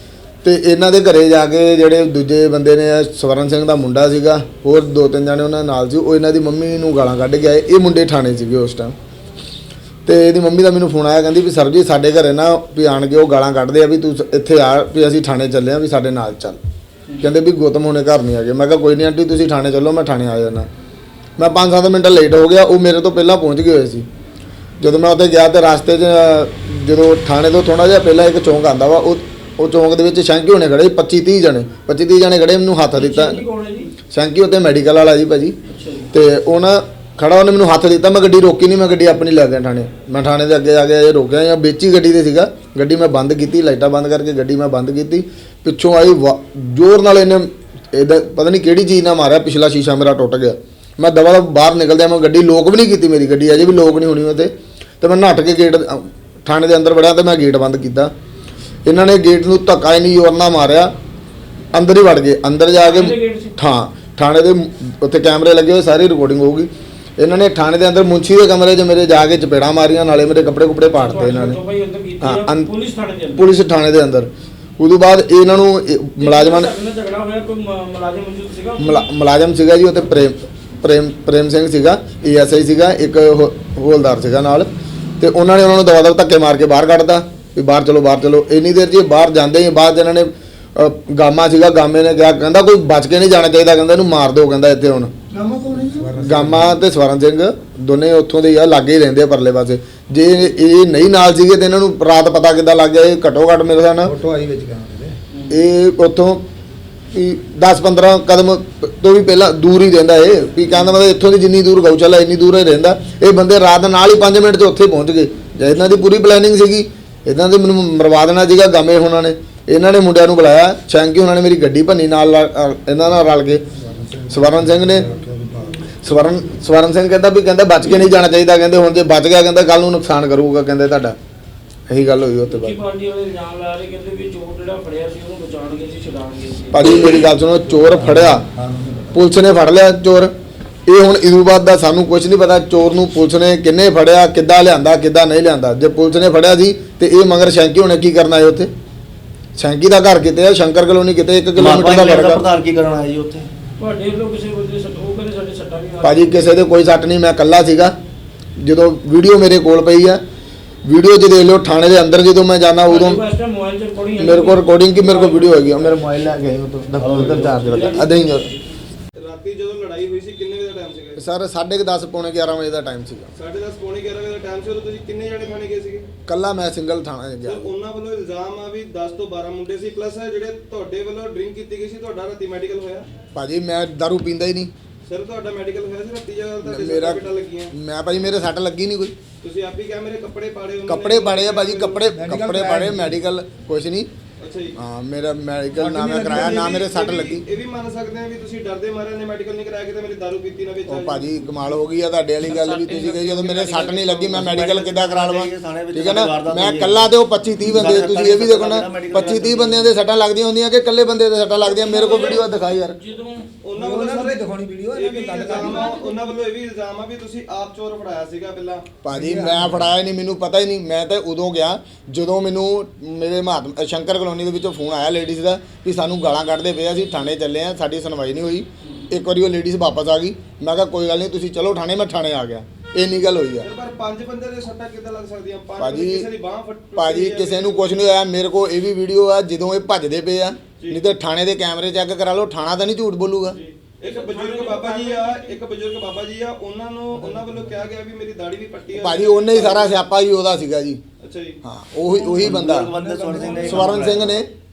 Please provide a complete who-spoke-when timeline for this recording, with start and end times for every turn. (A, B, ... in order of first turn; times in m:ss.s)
0:00.4-0:09.0 A
0:10.0-0:16.6 A
0:17.2-0:20.7 A
0:21.4-0:24.1 A
0:24.8-0:33.4 A
0:32.9-0:33.9 B
0:34.1-0:35.6 A
0:35.7-0:36.1 B
0:36.1-0:58.1 A
0:58.8-1:00.9 A
1:01.7-1:11.6 A
1:02.8-1:03.6 B
1:10.9-1:13.5 B
1:12.2-1:12.7 A
1:13.3-1:16.7 A
1:16.2-1:19.1 B
1:18.8-1:35.1 A
1:35.3-1:36.8 C
1:36.1-1:44.1 A
1:44.0-1:45.2 C
1:45.5-1:46.5 A
1:47.1-2:03.6 A
2:03.8-2:06.2 C
2:04.3-2:05.1 A
2:05.8-2:11.2 A
2:11.9-2:12.8 A
2:12.4-2:16.9 B
2:16.7-2:18.5 A
2:17.6-2:19.1 C
2:19.1-2:20.3 A
2:20.9-2:28.7 A
2:29.6-2:32.4 A
2:31.6-2:33.5 D
2:33.8-2:36.5 B
2:36.0-2:37.9 A
2:38.6-2:40.2 A
2:40.8-2:43.2 A
2:42.8-2:45.8 B
2:44.2-2:48.5 A
2:47.0-2:47.9 D
2:47.4-2:48.2 B
2:49.2-2:51.2 E
2:51.2-2:53.3 A
2:53.3-2:56.1 E
2:56.3-2:57.7 A
2:57.4-3:03.1 E
3:03.3-3:04.7 A
3:05.1-3:07.7 E
3:06.7-3:09.1 A
3:09.4-3:12.1 E
3:10.9-3:14.1 A
3:12.0-3:13.2 C
3:14.4-3:14.7 E
3:14.7-3:17.4 A
3:15.8-3:16.5 C
3:16.1-3:21.8 E
3:20.9-3:33.0 A
3:22.9-3:24.2 E
3:23.2-3:27.1 D
3:27.6-3:29.9 D
3:29.1-3:29.8 E
3:31.6-3:32.4 E
3:32.0-3:33.5 B
3:33.6-3:38.8 E
3:33.7-3:36.3 C
3:39.0-3:53.7 A
3:39.1-3:39.9 C
3:53.6-3:58.0 E
3:55.8-3:56.2 A
3:56.9-4:03.6 A
4:00.8-4:01.0 E
4:03.5-4:09.9 E
4:04.0-4:05.6 B
4:09.0-4:11.0 A
4:11.2-4:11.6 E
4:11.6-4:13.0 A
4:12.1-4:14.4 D
4:12.4-4:14.2 C
4:13.5-4:14.5 A